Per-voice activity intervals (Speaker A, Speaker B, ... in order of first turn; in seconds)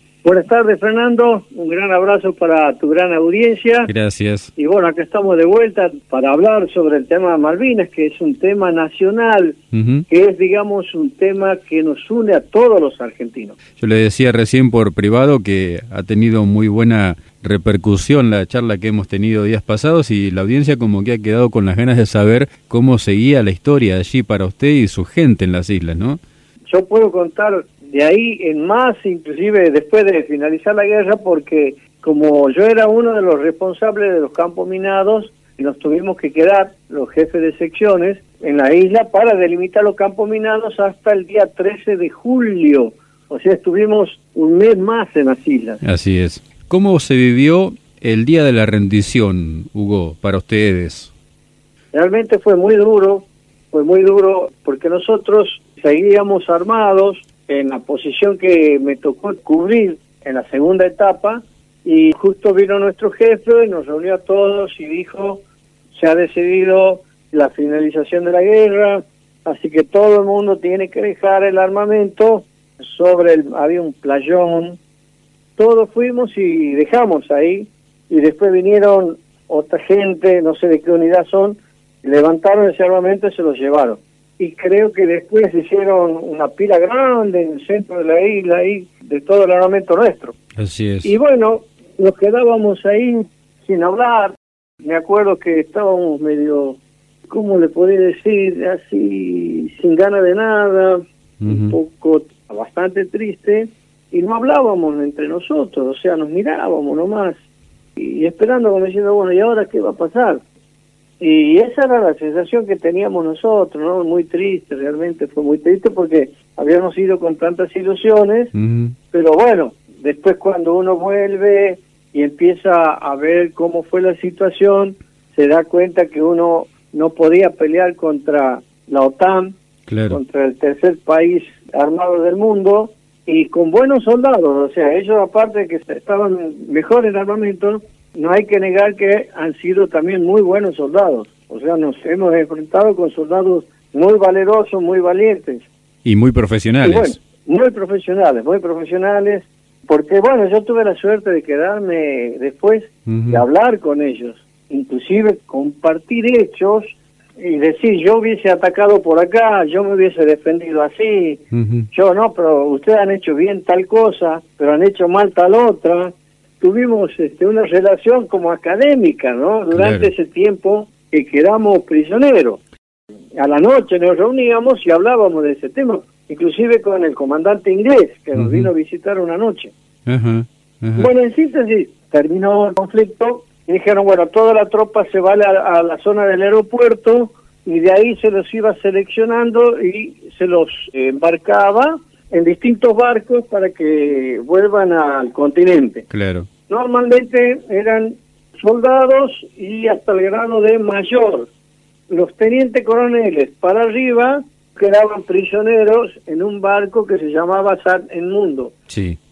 Speaker A: 0.2-3.9, 4.6-13.6, 26.7-45.8, 51.9-65.4, 65.9-74.8, 75.6-90.4, 91.0-96.8, 97.3-107.4, 108.0-110.4, 111.2-118.5, 119.1-129.6, 130.1-145.7, 146.8-172.6, 173.4-179.7, 181.0-196.1, 196.7-201.5, 202.1-208.7
Speaker B: 3.9-4.5, 9.7-10.1, 13.8-26.2, 45.8-51.1, 90.6-91.1, 101.4-101.8, 118.5-119.0, 129.9-130.2, 146.1-147.2, 153.1-153.4, 161.5-161.9, 169.7-170.1, 178.4-178.7, 180.1-181.1, 196.1-196.5, 208.9-209.2